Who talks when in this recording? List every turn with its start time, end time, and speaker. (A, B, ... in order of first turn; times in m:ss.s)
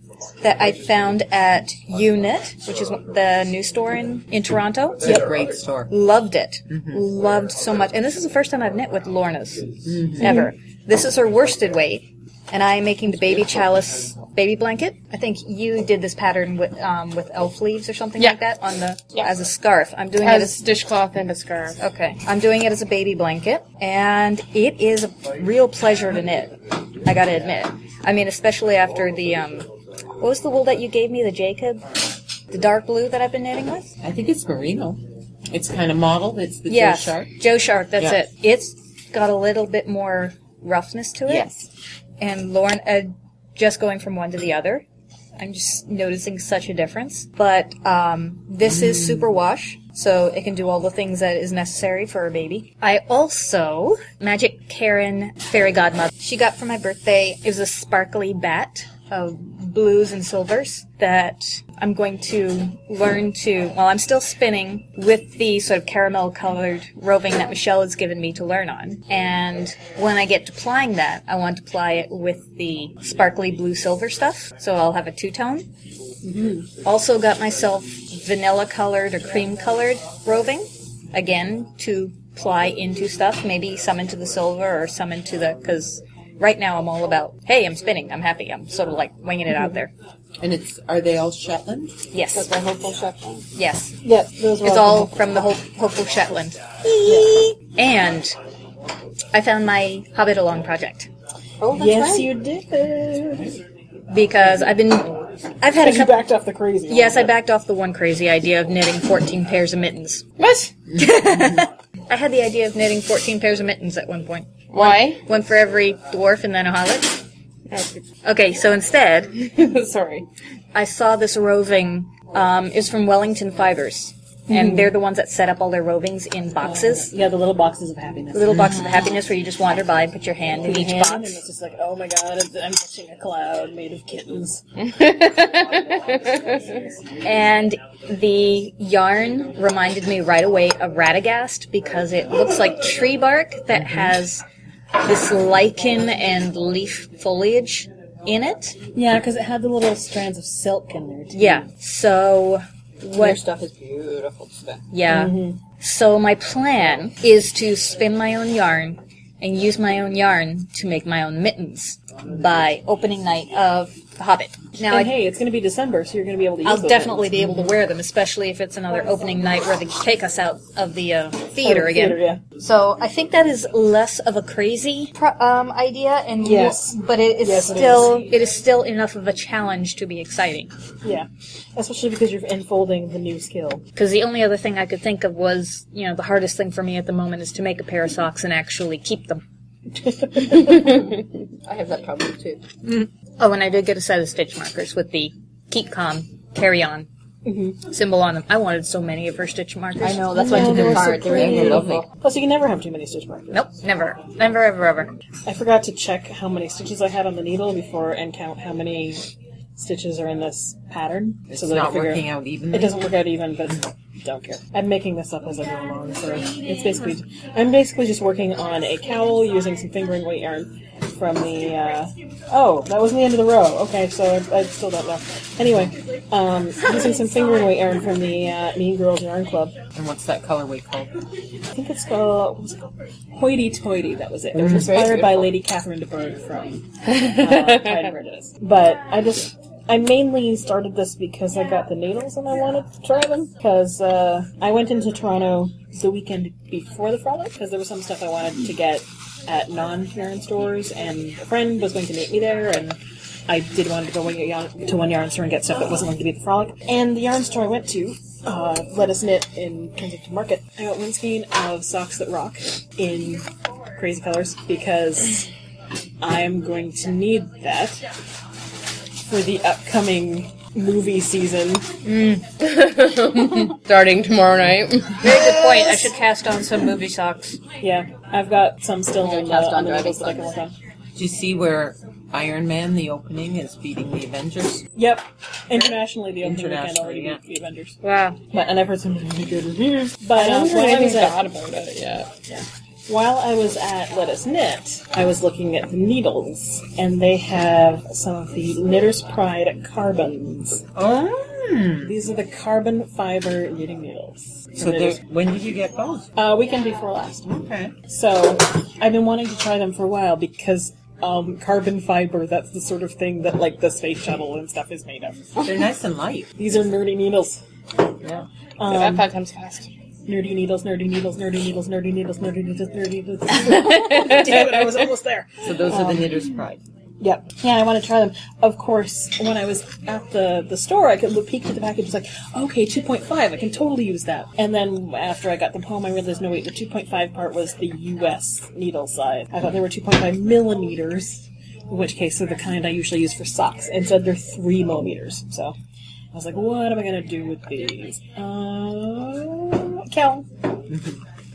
0:00.4-0:05.3 A
0:05.0-0:05.9 B
0:05.9-0:20.6 A
0:06.7-0:07.0 B
0:09.8-0:10.5 B
0:20.2-0:21.8 C
0:21.8-0:29.7 A
0:30.2-0:31.9 A
0:32.5-0:33.9 A
0:34.0-0:37.4 B
0:36.7-0:41.5 A
0:41.3-0:41.7 B
0:42.2-0:44.8 A
0:45.4-1:15.7 A
0:48.6-0:49.4 B
1:16.2-1:16.7 D
1:16.8-1:29.9 A
1:30.4-1:32.0 B
1:32.1-1:32.5 A
1:32.3-1:33.5 E
1:33.6-1:34.0 A
1:34.0-1:35.4 D
1:34.6-1:38.4 A
1:39.3-1:41.1 A
1:41.6-1:42.3 E
1:41.7-1:43.6 D
1:44.1-1:46.2 A
1:45.8-1:47.3 D
1:46.9-1:50.2 A
1:50.4-1:50.7 C
1:51.0-1:57.2 A
1:54.7-1:55.2 C
1:57.7-1:58.0 C
1:58.2-1:59.3 A
1:59.4-2:00.3 C
2:00.7-2:07.1 A
2:04.5-2:04.9 D
2:06.6-2:09.0 D
2:08.3-2:11.4 A
2:08.5-2:08.9 B
2:10.6-2:14.6 D
2:14.8-2:16.8 C
2:17.2-2:24.4 A
2:23.8-2:24.1 B
2:25.0-2:28.8 A
2:29.0-2:31.7 D
2:31.3-2:33.4 A
2:33.1-2:34.8 E
2:34.9-2:45.1 A
2:35.1-2:35.6 D
2:44.8-2:47.7 D
2:46.6-3:00.7 A
2:51.6-2:52.4 D
2:56.4-2:58.2 D
3:01.0-3:03.8 D
3:04.0-3:09.4 A
3:10.0-3:11.0 D
3:10.7-3:11.1 E
3:11.6-3:12.6 E
3:12.8-3:17.1 A
3:17.4-3:17.8 D
3:17.8-3:20.3 A
3:20.0-3:22.1 E
3:20.3-3:23.7 D
3:20.5-3:22.1 B
3:23.5-3:25.1 A
3:25.5-3:49.8 D
3:31.5-3:33.0 B
3:49.9-3:51.2 B
3:51.7-4:25.5 D
3:54.5-3:55.3 B
3:54.7-3:55.4 C
4:26.2-4:28.0 D
4:29.3-4:31.9 D
4:32.0-4:32.4 A
4:32.6-4:35.4 C
4:35.2-4:37.6 A
4:37.8-4:40.7 D
4:39.2-4:40.6 E
4:41.2-4:44.9 B
4:45.0-4:48.0 D
4:46.4-4:47.4 B
4:48.0-4:48.4 A
4:48.5-4:51.4 D
4:50.4-4:52.3 C
4:52.5-5:00.8 D
5:01.0-5:02.2 B
5:02.0-5:05.2 D
5:04.8-5:06.3 B
5:06.4-5:07.5 D
5:07.4-5:08.0 B
5:08.1-5:15.4 D
5:15.6-5:16.5 B
5:16.6-5:17.6 D
5:18.2-5:18.5 B
5:18.8-5:19.3 D
5:18.9-5:19.9 C
5:20.3-5:26.4 D
5:23.5-5:25.0 C
5:25.6-5:26.8 B
5:27.2-5:45.8 D
5:46.3-5:50.5 D
5:50.9-5:51.2 B